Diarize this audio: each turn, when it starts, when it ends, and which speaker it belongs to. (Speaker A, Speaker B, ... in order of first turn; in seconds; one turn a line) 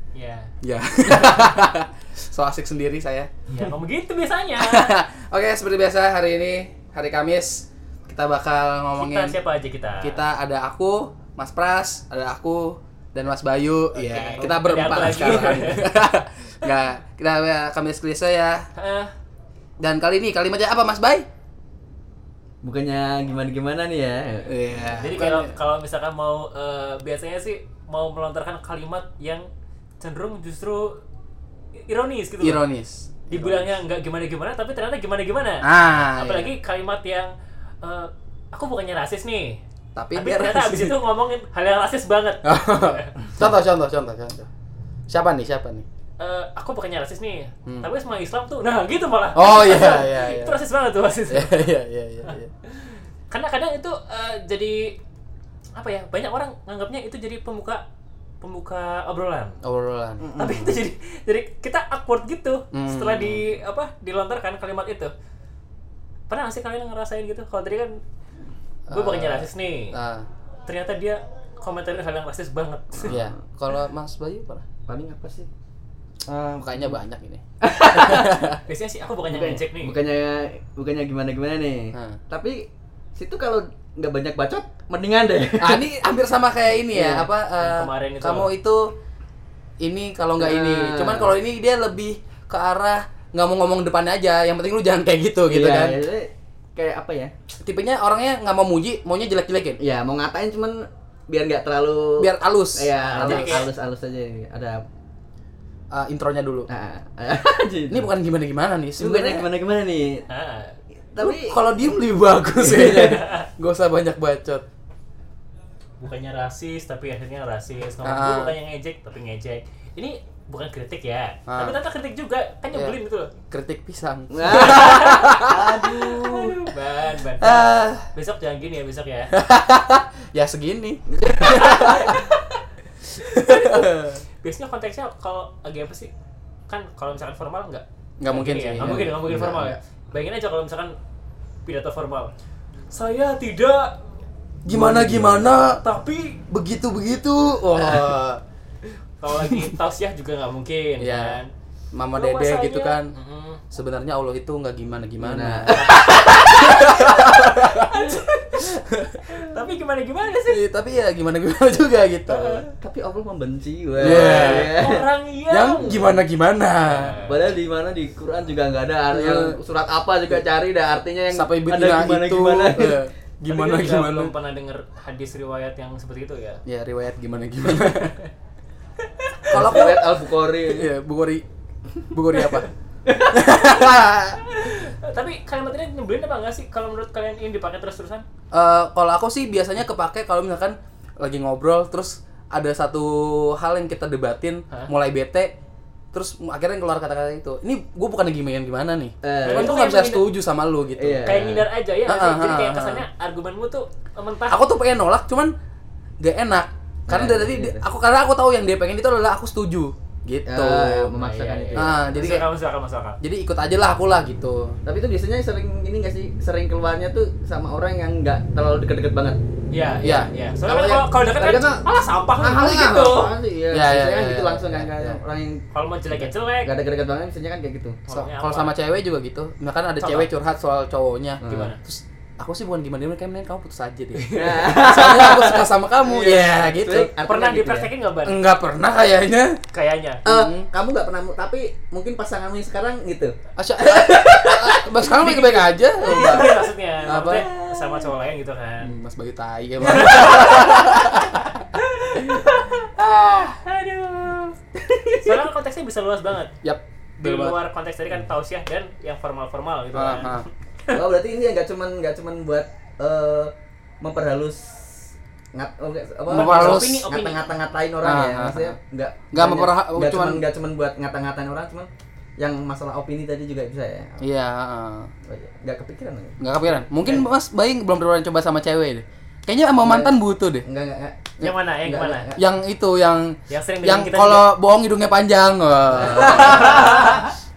Speaker A: 0.1-0.5
Speaker B: 0.6-3.3
Speaker A: 3.5-4.9
Speaker B: 4.6-9.4
Speaker A: 9.0-10.2
Speaker B: 10.0-18.7
Speaker A: 14.0-15.9
Speaker C: 14.4-15.5
Speaker A: 18.8-19.1
Speaker B: 19.8-21.3
Speaker C: 22.6-24.6
Speaker B: 24.5-25.6
Speaker A: 25.0-29.5
Speaker A: 30.0-31.0
Speaker A: 31.9-32.6
Speaker B: 32.4-33.7
Speaker A: 33.3-39.6
Speaker B: 35.6-36.5
Speaker B: 40.0-41.0
Speaker A: 40.1-43.2
Speaker B: 42.4-44.5
Speaker B: 45.1-45.9
Speaker A: 46.2-51.7
Speaker B: 47.7-47.9
Speaker B: 49.4-50.6
Speaker B: 51.3-52.5
Speaker A: 52.3-55.0
Speaker A: 55.8-57.8
Speaker A: 58.4-59.6
Speaker B: 59.6-60.3
Speaker C: 60.2-60.8
Speaker A: 60.4-65.1
Speaker B: 62.7-63.5
Speaker A: 66.3-68.0
Speaker B: 68.9-70.3
Speaker A: 68.9-70.0
Speaker A: 70.7-73.2
Speaker C: 73.0-73.3
Speaker B: 73.0-74.6
Speaker C: 74.9-75.5
Speaker C: 76.3-77.0
Speaker B: 76.5-78.6
Speaker C: 77.6-78.5
Speaker A: 78.7-80.0
Speaker C: 79.3-82.6
Speaker B: 81.9-82.2
Speaker C: 83.2-85.8
Speaker B: 85.5-88.9
Speaker C: 86.9-87.3
Speaker A: 87.6-88.5
Speaker B: 89.8-96.0
Speaker C: 90.4-91.3
Speaker C: 95.5-97.3
Speaker B: 97.6-99.8
Speaker C: 99.8-104.8
Speaker B: 102.2-103.7
Speaker A: 103.1-103.7
Speaker B: 105.9-106.7
Speaker C: 106.7-108.1
Speaker B: 107.9-109.5
Speaker C: 109.0-110.2
Speaker A: 110.3-110.8
Speaker C: 111.1-111.6
Speaker B: 111.2-114.7
Speaker C: 112.5-113.2
Speaker A: 113.1-113.5
Speaker A: 116.0-123.3
Speaker B: 118.0-118.6
Speaker B: 121.5-121.8
Speaker B: 122.7-123.0
Speaker B: 123.5-126.0
Speaker C: 124.3-126.6
Speaker A: 124.5-125.3
Speaker A: 126.2-129.3
Speaker B: 127.4-128.1
Speaker B: 129.3-132.3
Speaker C: 131.1-132.0
Speaker A: 131.5-132.4
Speaker B: 133.2-134.2
Speaker A: 133.3-136.1
Speaker A: 136.7-141.0
Speaker B: 138.2-139.8
Speaker C: 138.8-139.1
Speaker A: 141.7-142.3
Speaker A: 142.9-144.0
Speaker B: 144.7-145.8
Speaker C: 144.7-145.6
Speaker A: 145.7-146.4
Speaker B: 146.5-148.4
Speaker A: 149.2-151.5
Speaker B: 149.4-149.7
Speaker B: 151.0-151.4
Speaker B: 151.9-153.1
Speaker A: 152.2-153.6
Speaker B: 153.7-159.2
Speaker C: 155.2-156.5
Speaker A: 155.7-160.6
Speaker B: 160.5-162.7
Speaker A: 162.3-162.7
Speaker C: 162.8-165.1
Speaker B: 164.0-164.9
Speaker A: 164.1-166.2
Speaker B: 165.5-167.2
Speaker A: 166.9-167.4
Speaker C: 167.1-173.0
Speaker B: 169.1-169.6
Speaker B: 171.3-174.3
Speaker A: 173.5-176.6
Speaker B: 176.7-178.2
Speaker A: 177.7-178.1
Speaker B: 179.5-181.4
Speaker C: 179.5-180.9
Speaker B: 182.1-182.7
Speaker B: 183.3-184.4
Speaker A: 183.6-188.2
Speaker B: 188.5-195.5
Speaker B: 196.1-201.3
Speaker C: 199.2-199.8
Speaker A: 199.4-200.3
Speaker C: 201.0-201.7
Speaker A: 201.2-204.7
Speaker B: 202.1-203.1
Speaker B: 204.5-205.5
Speaker B: 206.2-211.2
Speaker C: 207.1-207.8
Speaker C: 210.5-212.3
Speaker A: 211.2-213.2
Speaker B: 211.8-212.5
Speaker B: 213.2-214.8
Speaker C: 214.8-219.4
Speaker A: 219.7-223.4
Speaker B: 220.0-221.9
Speaker C: 222.3-228.0
Speaker B: 222.4-222.9
Speaker B: 223.7-225.2
Speaker A: 225.7-226.8
Speaker A: 228.1-228.8
Speaker B: 228.1-237.1
Speaker A: 230.0-230.3
Speaker C: 231.4-231.7
Speaker A: 231.4-231.8
Speaker C: 234.3-237.9
Speaker A: 237.2-238.4
Speaker B: 238.2-239.6
Speaker A: 239.7-240.2
Speaker B: 240.2-240.7
Speaker C: 240.2-243.3
Speaker B: 243.6-247.5
Speaker C: 243.9-248.1
Speaker A: 246.0-248.9
Speaker B: 248.8-251.7
Speaker A: 249.8-254.6
Speaker B: 252.2-252.5
Speaker C: 254.8-255.4
Speaker A: 255.2-256.5
Speaker B: 256.6-257.6
Speaker A: 257.2-261.0
Speaker B: 259.9-260.5
Speaker C: 260.9-274.2
Speaker B: 266.3-267.1
Speaker A: 266.3-267.5
Speaker B: 268.0-268.8
Speaker B: 269.3-270.4
Speaker B: 274.2-275.1
Speaker C: 275.3-277.3
Speaker B: 276.4-280.6
Speaker C: 279.8-281.3
Speaker A: 281.4-282.3
Speaker C: 281.9-282.4
Speaker B: 282.4-287.2
Speaker A: 283.5-284.5
Speaker C: 286.0-287.2
Speaker A: 286.1-287.2